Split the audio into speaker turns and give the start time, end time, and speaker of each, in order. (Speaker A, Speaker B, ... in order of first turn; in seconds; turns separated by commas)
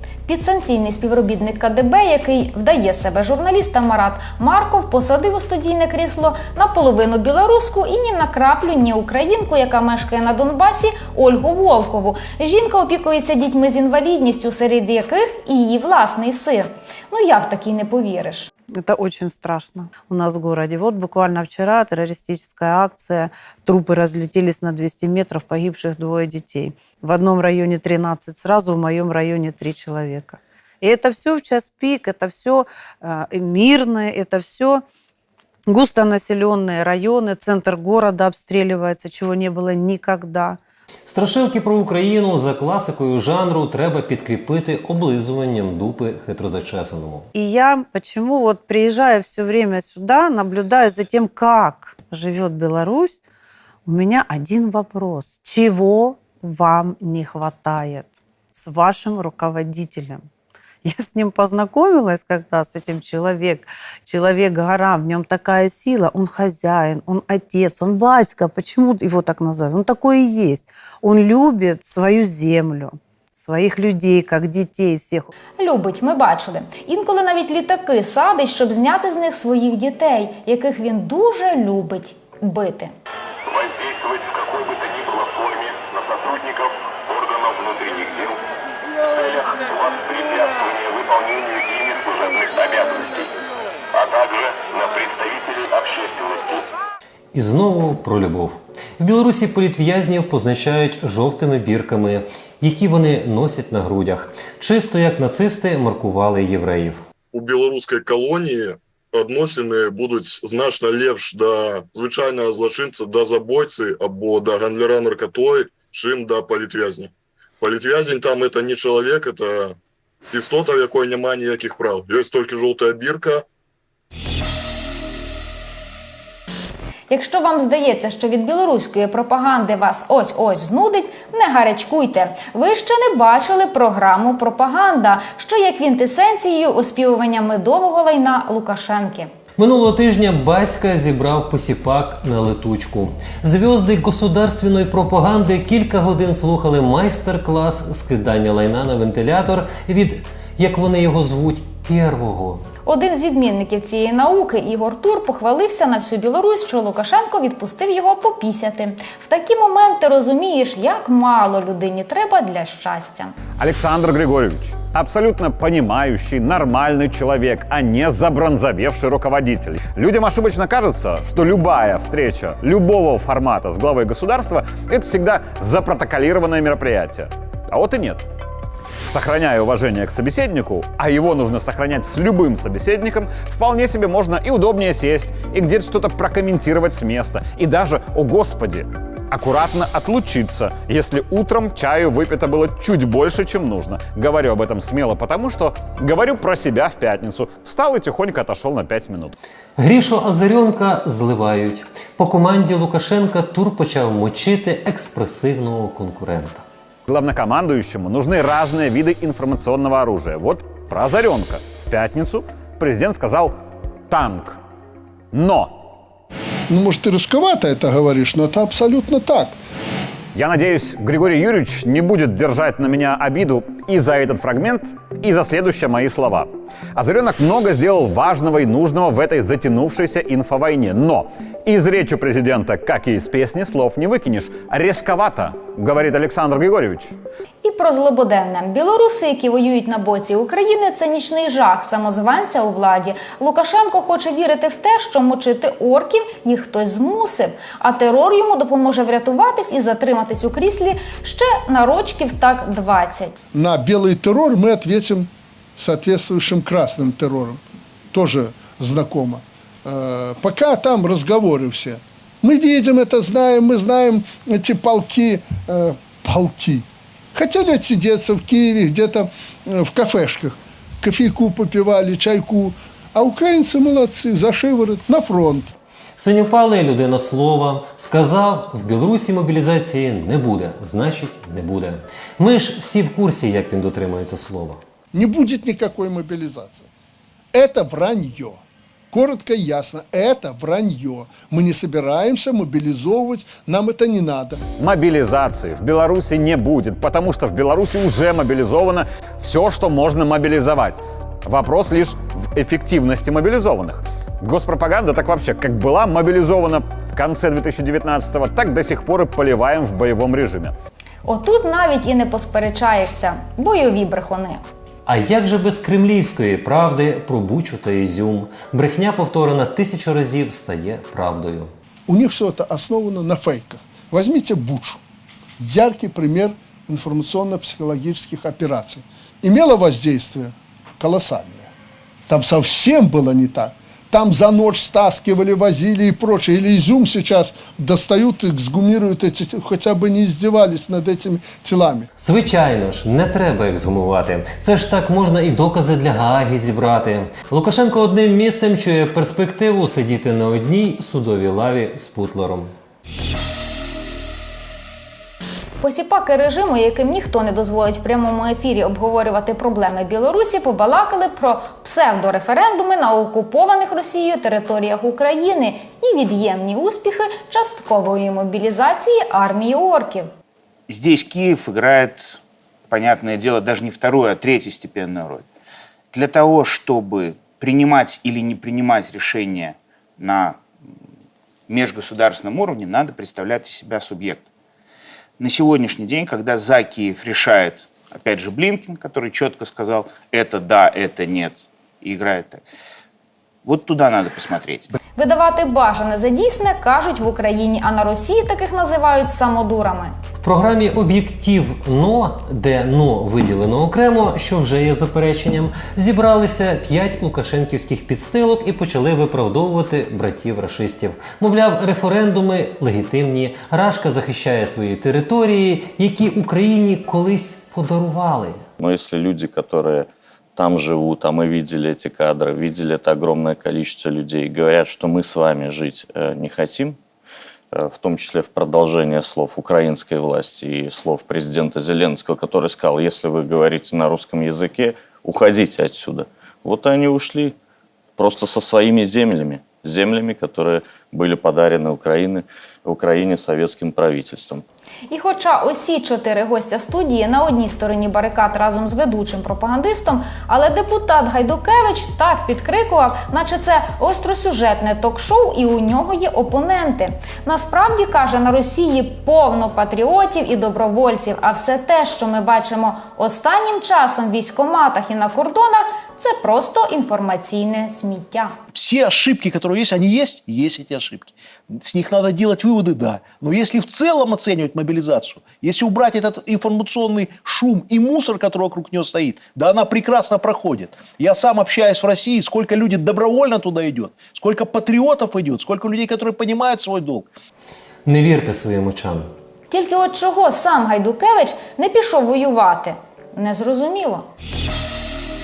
Speaker A: 0.3-18.5, Speaker B: 18.8-34.8, Speaker B: 35.7-40.6, Speaker C: 41.1-47.3, Speaker B: 47.3-53.2, Speaker B: 53.9-60.3, Speaker B: 60.8-75.3, Speaker A: 75.6-82.9, Speaker D: 83.5-88.4, Speaker D: 89.1-93.3, Speaker D: 93.9-96.7, Speaker C: 97.3-107.0, Speaker E: 107.3-119.8, Speaker E: 120.3-123.4, Speaker A: 127.1-139.3, Speaker C: 139.6-152.6, Speaker A: 152.8-163.3, Speaker F: 163.6-178.2, Speaker F: 179.1-199.3, Speaker C: 199.8-206.7, Speaker F: 207.1-213.5, Speaker F: 214.1-214.6, Speaker F: 215.3-215.7, Speaker G: 216.7-219.6, Speaker F: 220.3-237.1, Speaker A: 237.6-253.3, Speaker G: 253.5-275.7, Speaker C: 276.2-284.8, Speaker G: 285.1-286.9, Speaker G: 287.5-294.6, Speaker F: 294.8-310.7, Speaker A: 311.2-314.6, Speaker C: 315.1-321.7, Speaker G: 322.1-325.0, Speaker G: 325.6-331.7, Speaker G: 332.3-342.1, Speaker C: 342.2-352.7, Speaker A: 355.8-370.3, Speaker H: 370.9-375.4, Speaker H: 376.1-380.6, Speaker H: 381.7-384.4, Speaker H: 385.4-392.6, Speaker H: 393.6-394.9, Speaker A: 395.2-400.1, Speaker C: 400.4-418.6, Speaker I: 418.8-427.0, Speaker I: 427.7-437.6, Speaker I: 438.2-444.6, Speaker A: 445.1-468.5, Speaker J: 468.7-487.3, Speaker C: 488.1-489.3, Speaker A: 489.7-494.2